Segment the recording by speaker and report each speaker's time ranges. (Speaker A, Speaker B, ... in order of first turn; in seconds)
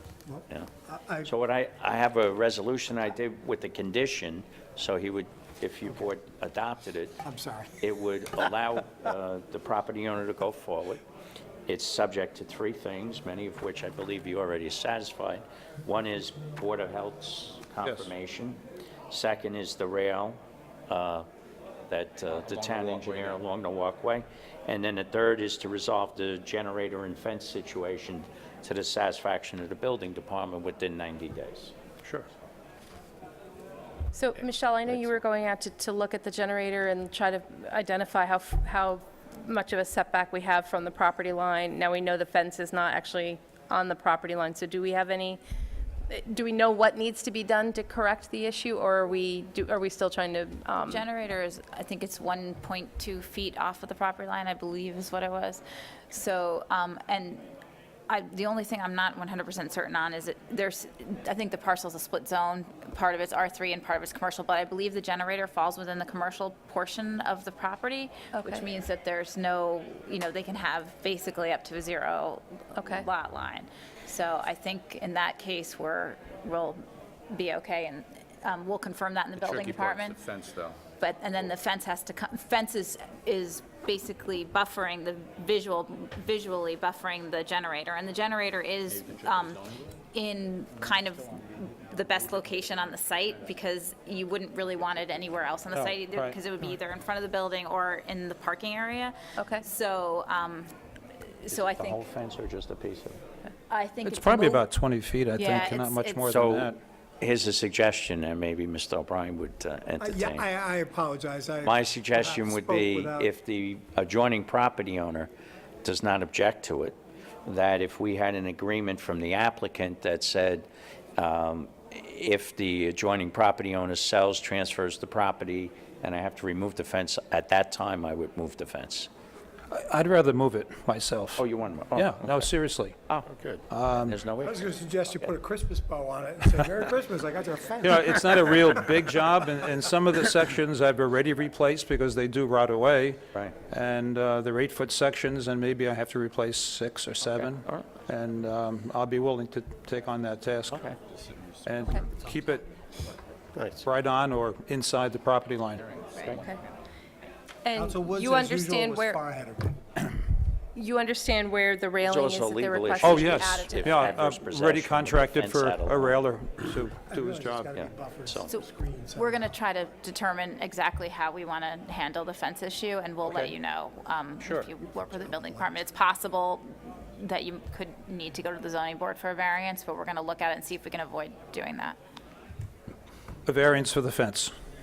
Speaker A: 0.3-1.3, 7.2-7.7, 110.0-113.3, 134.4-138.8, 157.8-159.8, 167.1-169.5, 175.0-175.7
Speaker B: 1.2-7.2, 7.8-11.0, 11.7-21.3, 21.9-31.7, 101.5-103.2, 106.3-110.5, 111.6-115.3, 115.8-129.1, 131.4-132.5, 133.1-133.5, 134.0-135.3, 147.2-147.9, 150.7-151.0, 156.2-156.4, 162.0-166.2, 167.7-168.5
Speaker C: 22.3-23.4, 79.4-80.8, 88.9-90.0, 150.9-152.4, 155.7-156.7
Speaker D: 34.1-45.4, 46.1-51.0, 68.3-68.7, 72.8-73.1, 99.4-99.6, 157.7-159.2, 160.8-164.1
Speaker E: 50.9-57.5, 58.1-80.2, 81.0-100.7, 101.4-102.0, 103.7-104.6, 105.3-106.3, 169.2-182.0
Speaker F: 95.7-96.4, 104.0-106.8, 129.7-131.4, 131.9-133.0, 133.7-134.2, 137.8-150.8, 151.7-152.7, 153.8-155.8, 163.0-167.8, 183.5-184.5